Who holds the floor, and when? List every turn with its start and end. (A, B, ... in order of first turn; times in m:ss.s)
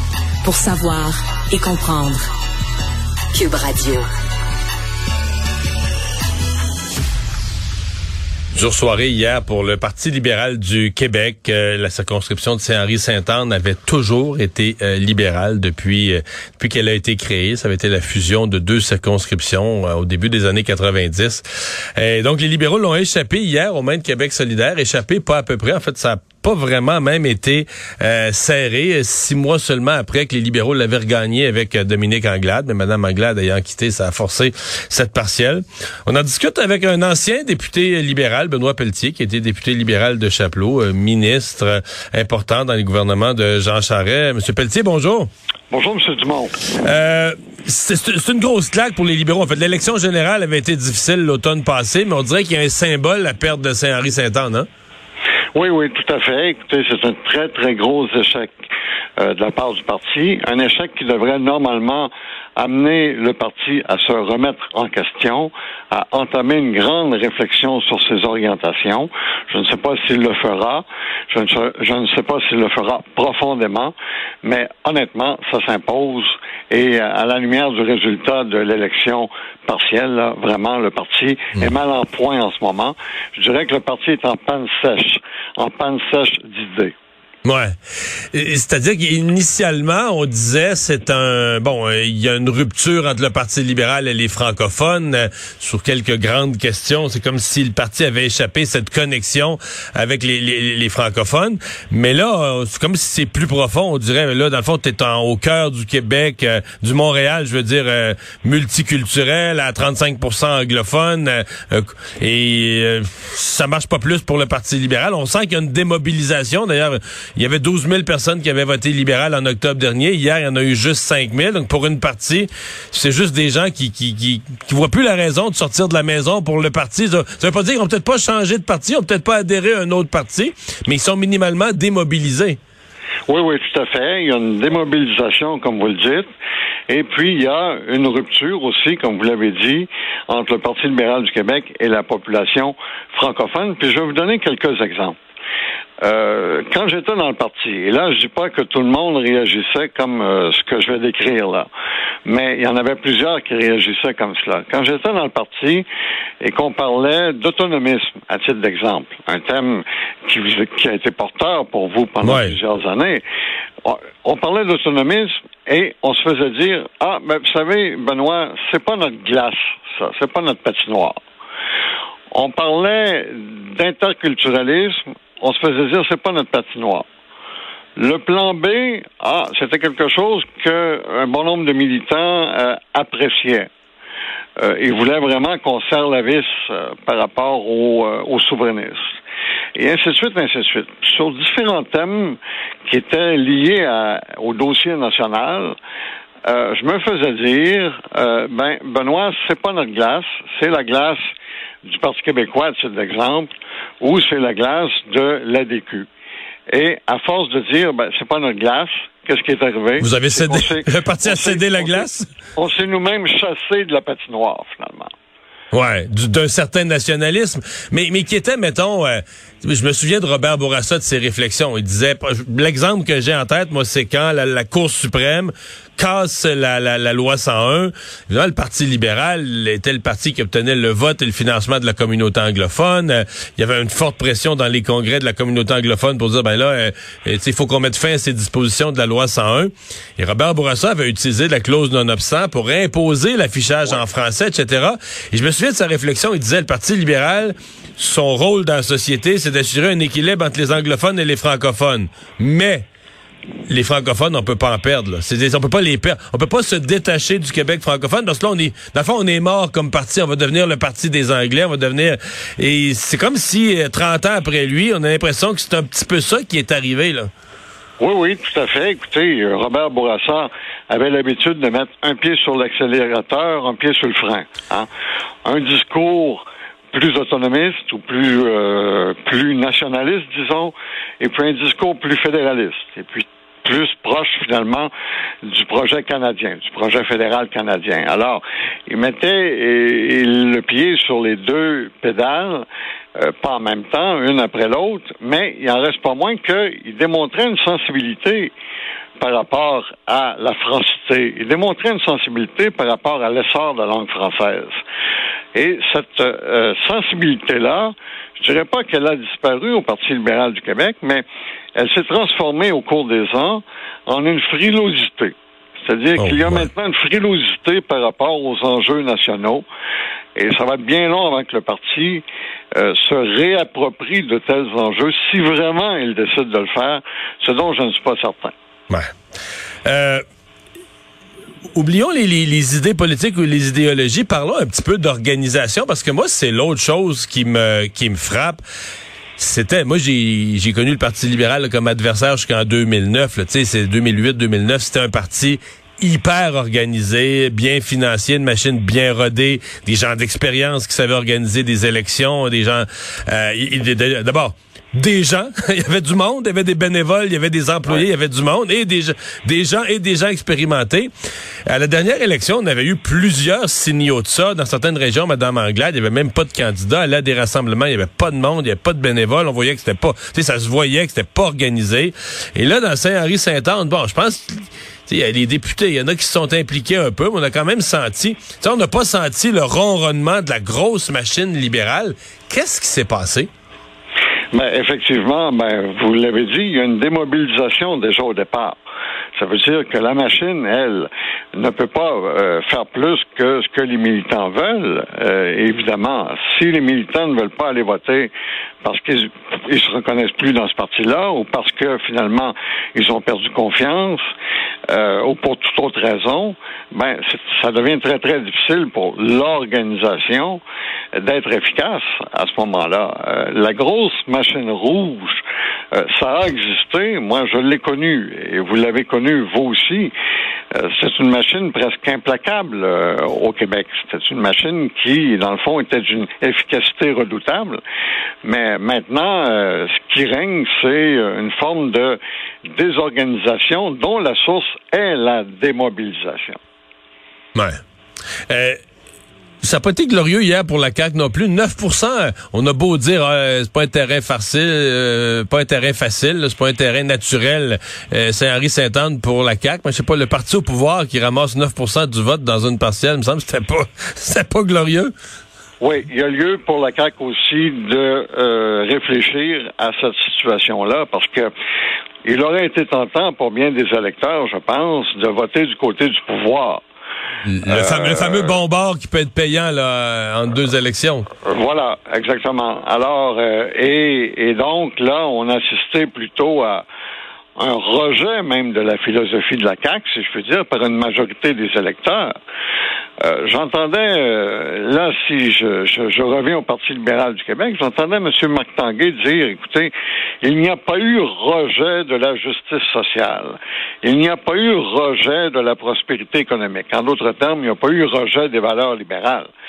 0:00.4-0:02.2 A
0:03.3-0:04.0 A
0:08.5-0:21.4 B
0:22.0-0:45.3 B
0:45.7-0:46.5 C
0:46.8-0:54.7 B
0:55.5-0:58.6 C
0:59.2-1:26.9 C
1:27.4-1:27.7 B
1:28.3-2:12.6 B
2:13.3-2:16.3 C
2:16.9-2:25.2 C
2:26.0-2:31.7 C
2:32.2-2:35.9 C
2:36.4-2:43.2 C
2:42.2-2:42.6 B
2:43.8-2:51.2 C
2:52.3-2:57.0 C
2:58.0-3:03.7 C
3:04.6-3:09.1 C
3:09.8-3:15.8 C
3:16.4-3:21.2 C
3:21.8-3:26.1 C
3:26.7-3:35.1 C
3:30.0-3:32.3 B
3:35.7-4:12.8 B
4:13.7-4:27.3 B
4:28.0-4:34.9 C
4:35.4-4:44.9 C
4:45.4-4:52.6 C
4:53.2-4:58.5 C
4:59.2-5:04.8 C
5:05.5-5:19.6 C
5:16.2-5:16.7 B
5:20.3-5:28.5 C
5:29.8-5:30.2 B
5:31.7-5:38.6 B
5:39.4-6:01.1 B
6:01.7-6:23.5 B
6:24.5-6:28.8 C
6:29.3-6:38.3 C
6:38.8-6:44.2 C
6:44.9-6:50.6 C
6:51.1-7:00.1 C
7:00.7-7:07.8 C
7:08.4-7:12.2 C
7:12.7-7:16.6 C
7:17.5-7:17.8 B
7:18.5-7:18.8 B
7:19.6-7:35.1 B
7:35.8-7:41.5 C
7:42.2-7:46.8 C
7:47.5-7:51.2 B
7:47.6-7:48.6 C
7:51.4-7:56.8 C
7:57.6-8:02.3 C
8:03.2-8:19.5 C